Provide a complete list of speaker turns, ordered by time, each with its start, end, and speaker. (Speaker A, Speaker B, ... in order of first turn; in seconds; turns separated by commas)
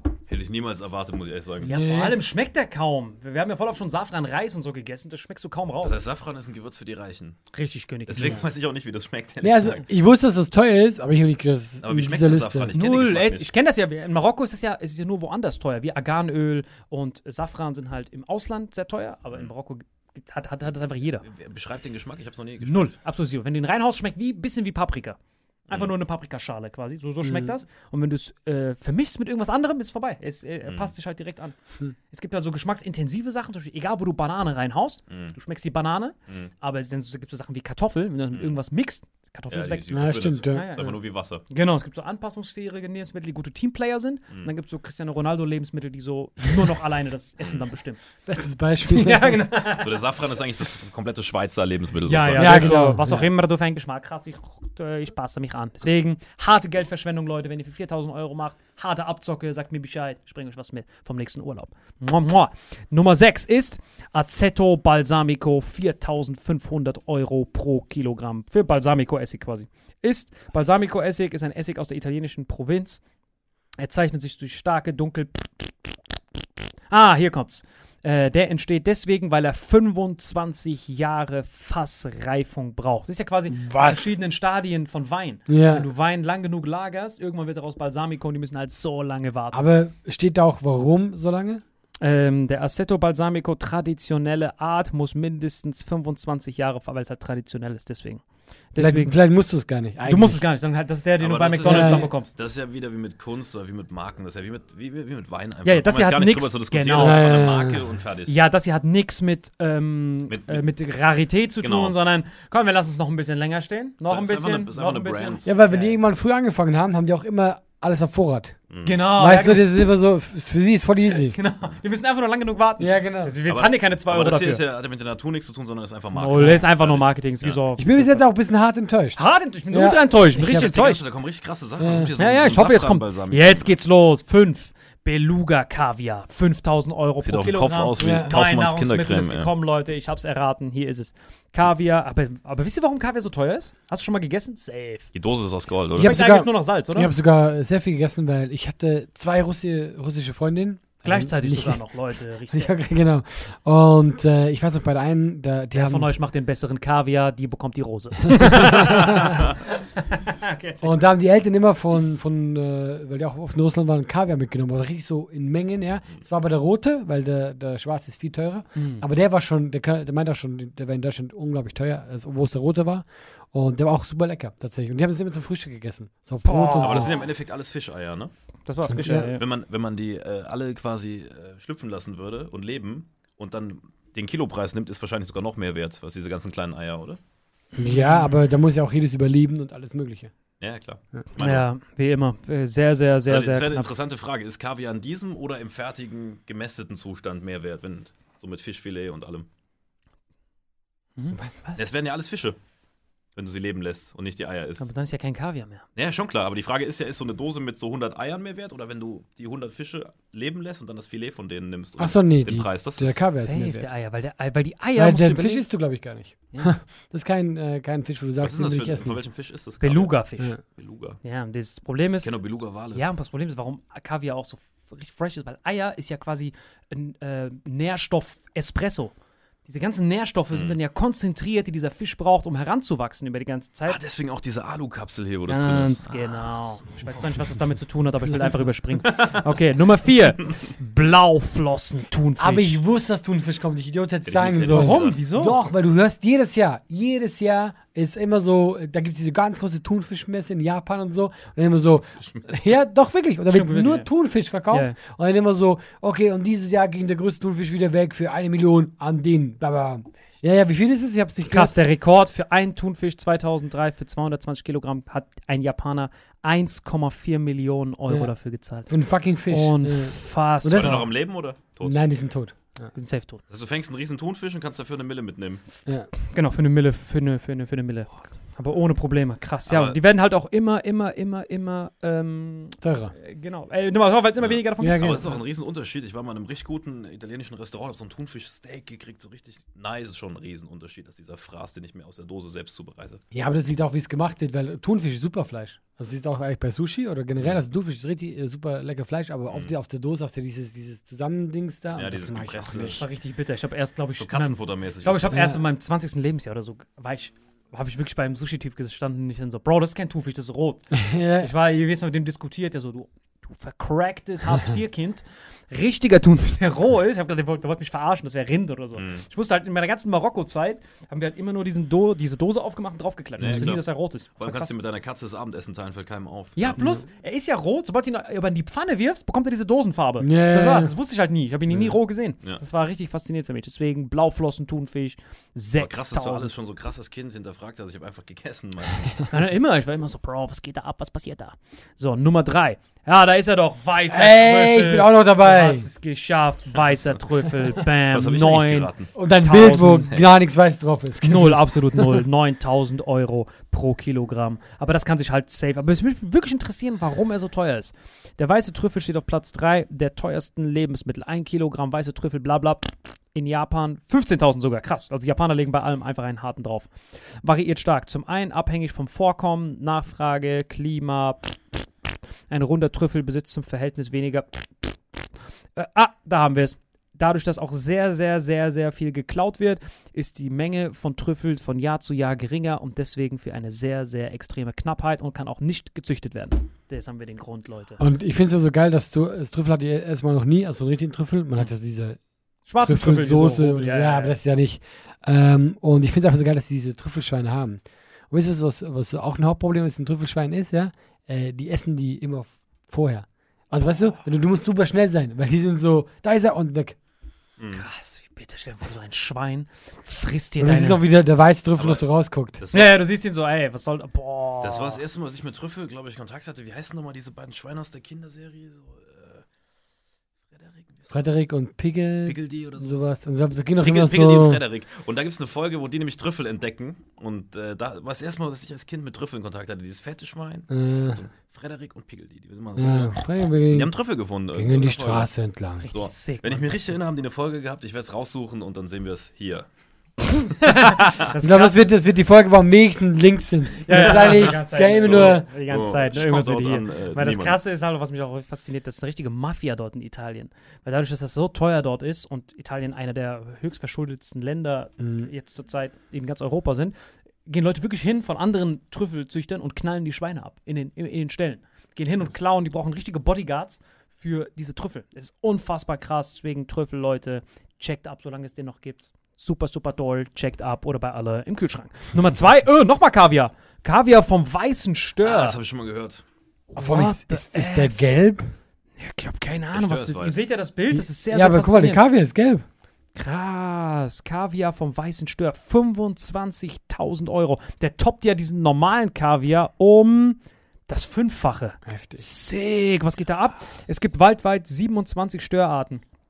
Speaker A: 0.3-1.8, Speaker B: 1.6-6.0, Speaker C: 1.7-2.2, Speaker A: 5.8-7.4, Speaker B: 7.5-8.4, Speaker A: 8.1-9.8, Speaker C: 9.4-12.7, Speaker A: 11.8-13.5, Speaker B: 12.7-21.2, Speaker A: 21.2-22.9, Speaker B: 22.6-31.5, Speaker C: 27.2-27.5, Speaker A: 30.6-30.9, Speaker B: 32.1-39.8, Speaker A: 39.5-41.4, Speaker C: 39.9-40.9, Speaker B: 40.5-48.0, Speaker C: 48.3-49.4, Speaker B: 48.9-50.0, Speaker A: 49.7-52.8, Speaker B: 52.1-73.0, Speaker C: 52.4-53.2, Speaker B: 73.8-76.0, Speaker B: 76.9-89.6, Speaker C: 83.6-84.1, Speaker C: 85.5-85.8, Speaker C: 89.5-91.6, Speaker B: 92.0-99.2, Speaker C: 98.8-100.4, Speaker B: 100.0-102.3, Speaker A: 101.2-108.3, Speaker C: 101.6-102.1, Speaker B: 105.6-107.3, Speaker C: 107.0-107.8, Speaker B: 108.3-116.0, Speaker A: 110.3-110.6, Speaker A: 111.6-111.9, Speaker A: 114.0-115.5, Speaker C: 115.4-121.3, Speaker A: 118.7-119.0, Speaker B: 118.8-119.7, Speaker B: 121.1-124.6, Speaker C: 122.8-123.4, Speaker A: 123.5-127.6, Speaker B: 126.2-128.3, Speaker C: 126.4-126.6, Speaker C: 127.8-130.7, Speaker B: 129.2-131.0, Speaker A: 130.4-133.8, Speaker C: 131.8-132.1, Speaker B: 132.2-145.1, Speaker A: 137.2-139.5, Speaker C: 138.0-138.3, Speaker A: 145.1-146.2, Speaker C: 146.0-151.9, Speaker B: 146.0-147.1, Speaker B: 151.0-152.8, Speaker C: 152.5-156.1, Speaker B: 155.7-161.0, Speaker C: 158.6-159.2, Speaker C: 160.8-177.1, Speaker B: 168.7-169.0, Speaker B: 176.4-177.2, Speaker A: 176.8-178.3, Speaker B: 178.7-179.4, Speaker C: 178.9-179.3, Speaker A: 179.2-187.2, Speaker C: 187.7-190.3, Speaker B: 187.8-188.3, Speaker A: 190.6-191.7, Speaker B: 191.4-193.9, Speaker A: 193.3-199.5, Speaker B: 201.2-201.9, Speaker A: 201.8-202.6, Speaker A: 203.3-204.9, Speaker B: 204.8-205.8, Speaker A: 205.9-213.2, Speaker C: 212.0-213.9, Speaker B: 213.4-215.7, Speaker C: 214.9-219.2, Speaker B: 216.5-216.8, Speaker A: 218.4-221.2, Speaker B: 219.8-220.6, Speaker B: 221.2-229.1, Speaker A: 222.2-223.0, Speaker B: 229.7-234.0, Speaker A: 230.5-230.8, Speaker A: 233.8-237.2, Speaker B: 235.5-242.8, Speaker C: 242.4-261.7, Speaker A: 244.2-245.2, Speaker B: 244.7-245.6, Speaker A: 252.2-252.7, Speaker B: 253.5-254.1, Speaker B: 254.7-255.0, Speaker B: 261.5-271.1, Speaker C: 268.1-271.2, Speaker A: 270.7-272.1, Speaker C: 271.8-272.9, Speaker B: 272.9-273.4, Speaker A: 273.5-275.6, Speaker B: 276.2-285.4, Speaker A: 279.6-279.9, Speaker C: 282.8-283.1, Speaker A: 284.4-293.2, Speaker C: 284.8-285.2, Speaker C: 293.3-303.0, Speaker A: 299.5-299.7, Speaker A: 301.9-303.1, Speaker B: 302.9-324.7, Speaker A: 304.2-305.5, Speaker C: 305.3-305.6, Speaker C: 311.0-311.5, Speaker A: 318.9-319.2, Speaker A: 323.4-327.0, Speaker B: 326.6-336.5, Speaker C: 330.2-330.9, Speaker A: 335.8-339.3, Speaker B: 339.3-350.1, Speaker C: 344.1-345.9, Speaker A: 346.8-347.2, Speaker A: 347.8-350.3, Speaker C: 349.1-352.1, Speaker B: 351.2-388.0, Speaker C: 388.0-392.2, Speaker B: 392.7-394.4, Speaker C: 392.8-407.0, Speaker A: 407.6-407.8, Speaker B: 407.7-411.0, Speaker C: 410.6-412.6, Speaker A: 411.8-412.1, Speaker A: 412.6-413.0, Speaker B: 412.7-415.0, Speaker A: 414.6-419.4, Speaker A: 420.5-421.1, Speaker C: 421.1-424.6, Speaker A: 422.2-423.1, Speaker A: 423.8-435.3, Speaker C: 430.7-431.2, Speaker C: 432.8-435.9, Speaker B: 435.8-436.9, Speaker A: 435.9-439.7, Speaker B: 440.6-441.9, Speaker A: 440.7-441.3, Speaker C: 441.4-445.5, Speaker B: 443.9-456.9, Speaker A: 444.1-444.4, Speaker A: 445.0-447.6, Speaker C: 455.0-455.3, Speaker B: 457.4-475.6, Speaker A: 475.2-476.2, Speaker B: 476.7-478.0, Speaker C: 476.8-478.5, Speaker B: 479.0-482.0, Speaker A: 479.7-480.4, Speaker C: 480.9-482.6, Speaker B: 483.1-496.0, Speaker C: 491.9-492.2